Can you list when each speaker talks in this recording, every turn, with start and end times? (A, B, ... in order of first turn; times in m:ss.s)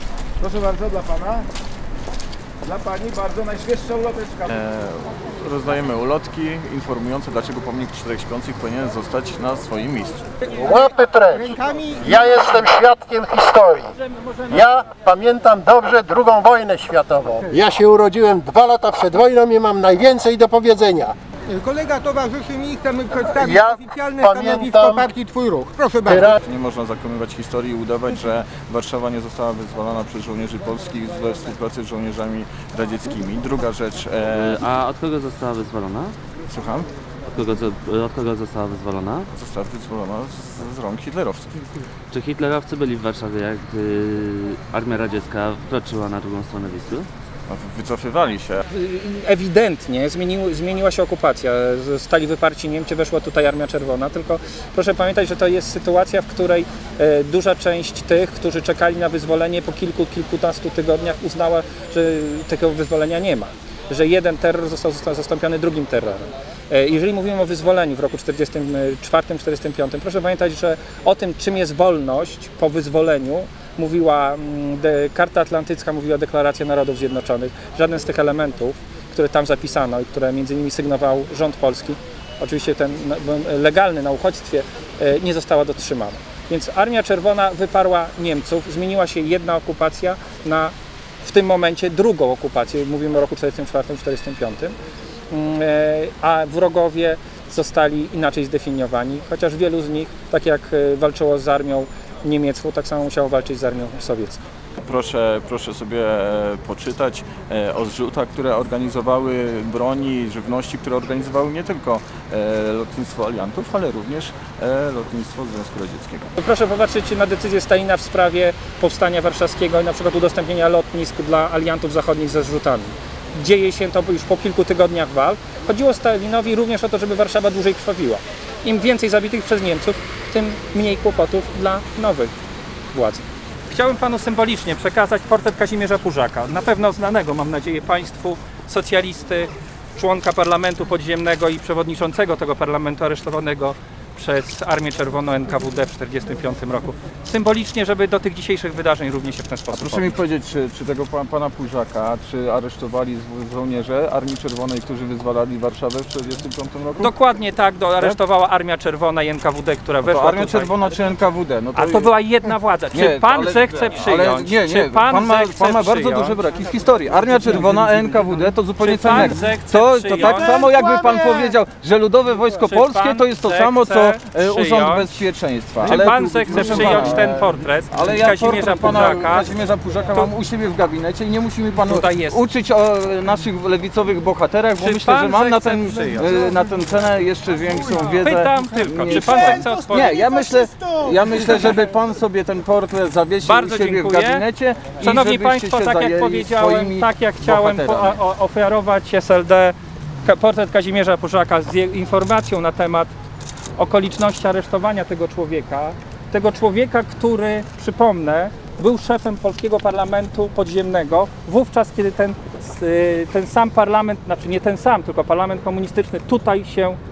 0:00.4-0:01.5 A
0:02.6-0:04.5 A
0:04.5-0:10.3 B
0:10.5-0:21.2 C
0:11.3-0:12.3 D
0:21.5-0:26.4 D
0:23.4-0:25.1 C
0:26.1-0:26.4 C
0:26.4-0:34.6 B
0:34.4-0:36.2 E
0:36.5-0:36.9 B
0:37.3-0:39.3 E
0:39.3-0:41.7 B
0:42.1-0:47.1 E
0:47.5-0:48.6 B
0:48.7-1:34.7 F
1:35.3-1:44.4 F
1:44.8-1:56.3 B
1:56.4-2:12.3 F
2:12.9-2:30.1 F
2:29.7-2:37.1 B
2:37.0-2:40.8 F
2:40.0-2:42.1 B
2:41.8-2:46.4 F
2:42.9-3:18.2 B
2:48.8-2:51.6 F
2:52.5-2:55.2 F
2:55.8-2:59.5 F
3:01.9-3:02.4 F
3:04.8-3:06.3 F
3:08.0-3:10.2 F
3:08.6-3:11.8 D
3:13.4-3:23.1 F
3:23.8-3:37.0 F